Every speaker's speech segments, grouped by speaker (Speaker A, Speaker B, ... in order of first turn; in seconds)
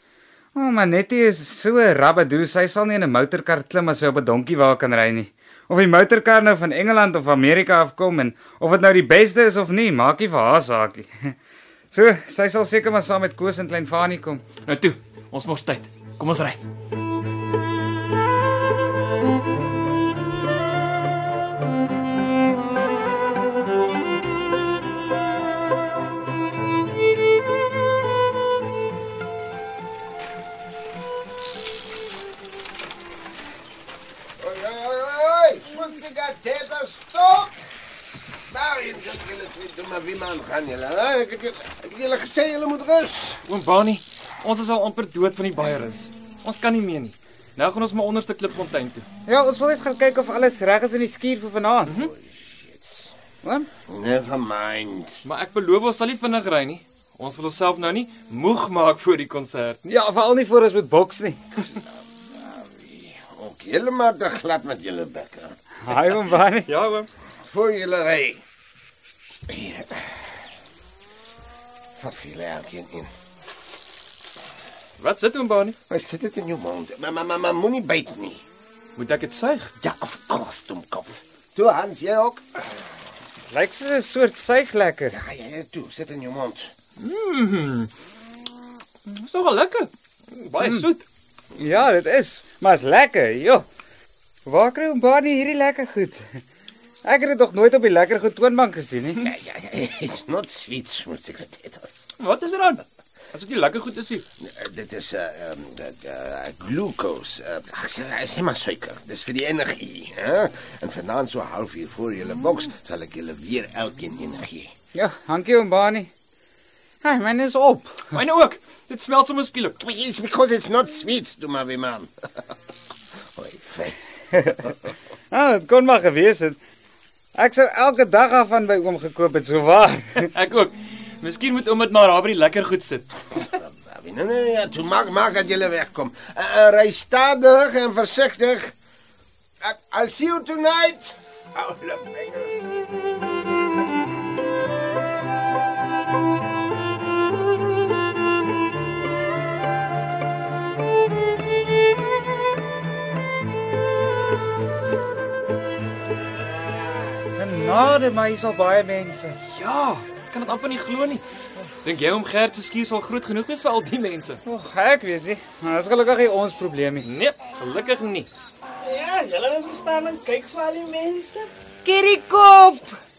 Speaker A: 0.5-11.3, 11.9-14.4, 49.3-52.1, 53.4-53.7, 59.9-61.5, 65.8-66.7, 83.5-85.2, 90.6-90.9, 91.5-93.6, 94.5-96.4, 97.0-99.3, 114.9-116.1, 117.0-118.1, 124.3-124.6, 125.3-126.6, 127.4-130.3, 157.4-159.4, 164.4-167.1, 171.8-173.0
Speaker B: 14.7-16.6, 43.5-49.1, 55.2-59.8, 66.7-67.1, 75.0-75.8, 79.0-79.7, 87.0-87.9, 89.1-91.0, 102.2-104.2, 118.1-119.8, 130.3-133.1, 159.5-161.2, 161.8-164.4, 167.0-168.3
Speaker C: 34.4-37.6, 38.5-43.4, 52.0-53.1, 53.9-55.2, 61.7-65.5, 67.5-68.4, 69.5-70.3, 72.0-73.1, 75.9-78.4, 79.8-82.4, 85.1-86.7, 99.2-102.1, 104.4-114.7, 119.8-122.1, 123.4-124.0, 133.3-138.7, 139.6-142.7
Speaker D: 168.8-171.5